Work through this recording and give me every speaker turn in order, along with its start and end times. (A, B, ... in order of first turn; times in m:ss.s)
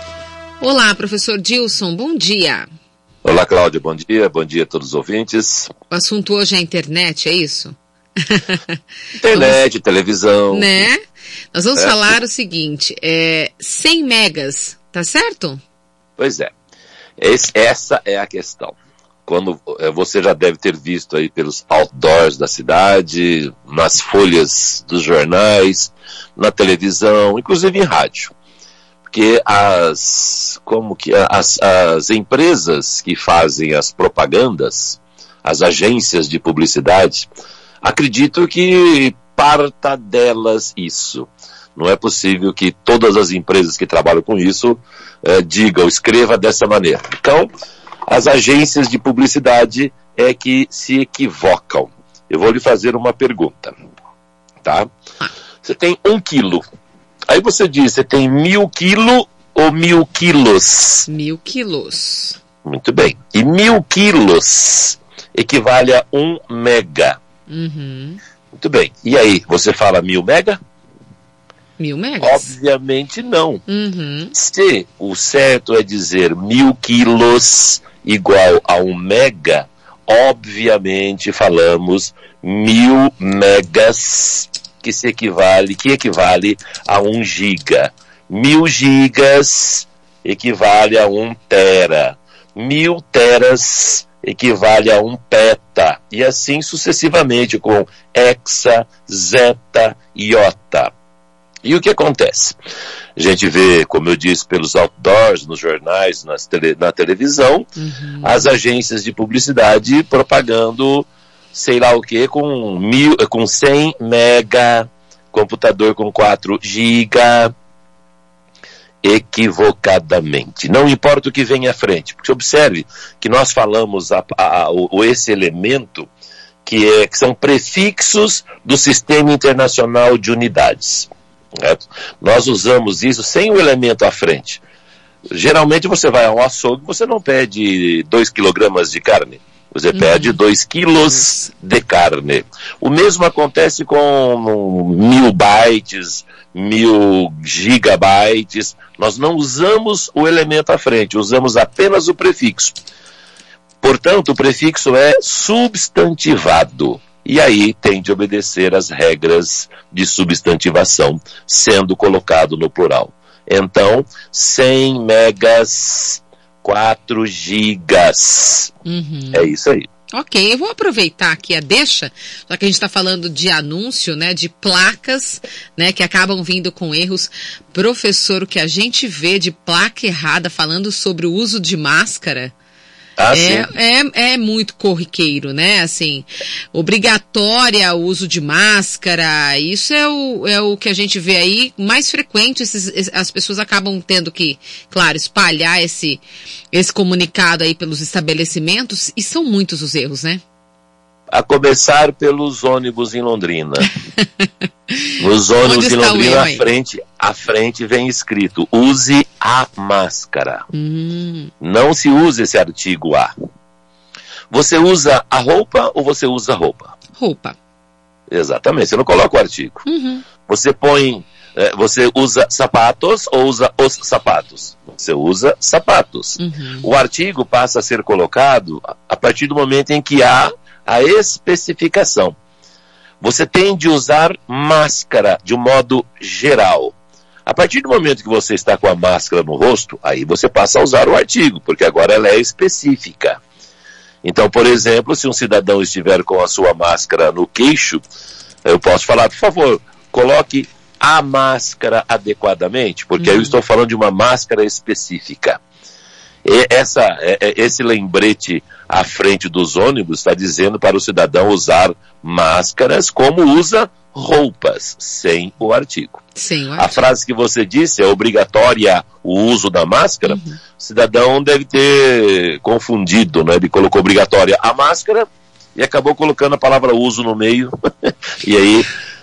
0:00.6-0:02.7 A
0:03.2-0:05.7 B
0:05.9-0:08.8 A
0:09.1-0:10.8 B
0:09.3-0:09.6 A
0:10.5-0:11.0 A
0:11.5-0:15.6 A
0:11.8-0:12.1 B
0:16.2-0:16.5 B
0:17.2-0:28.3 B
0:29.0-0:37.3 B
0:37.8-0:47.5 B
0:48.1-0:53.7 B
0:54.6-0:54.9 B
0:55.6-0:56.6 B
0:57.3-1:01.1 B
1:01.1-1:02.4 A
1:02.6-1:07.2 B
1:07.5-1:08.2 A
1:08.5-1:10.6 B
1:11.8-1:12.5 A
1:12.2-1:13.6 B
1:13.7-1:14.3 A
1:14.3-1:40.9 B
1:41.6-1:42.6 B
1:43.2-1:47.7 B
1:47.8-1:48.4 A
1:48.2-1:57.5 B
1:59.0-2:06.1 B
2:06.6-2:14.6 B
2:15.3-2:32.8 B
2:19.9-2:20.4 A
2:33.8-2:48.7 B
2:48.8-2:49.5 A
2:49.3-2:49.9 B
2:50.1-3:02.5 A
3:03.2-3:03.7 B
3:03.3-3:20.4 A
3:21.3-3:23.9 B
3:23.9-3:25.1 A
3:25.2-3:30.6 B
3:25.6-3:26.7 A
3:30.7-3:31.5 A
3:31.6-3:33.3 B
3:34.5-3:36.9 B
3:37.2-3:37.6 A
3:38.3-3:39.8 B
3:39.8-3:40.2 A
3:40.4-3:52.4 B
3:46.4-3:46.9 A
3:53.2-3:56.9 B
3:57.4-4:03.4 B
4:04.2-4:08.0 B
4:08.6-4:15.6 B
4:13.2-4:13.5 A
4:16.4-4:26.2 B
4:26.4-4:27.0 A
4:26.8-4:38.9 B
4:30.2-4:30.6 A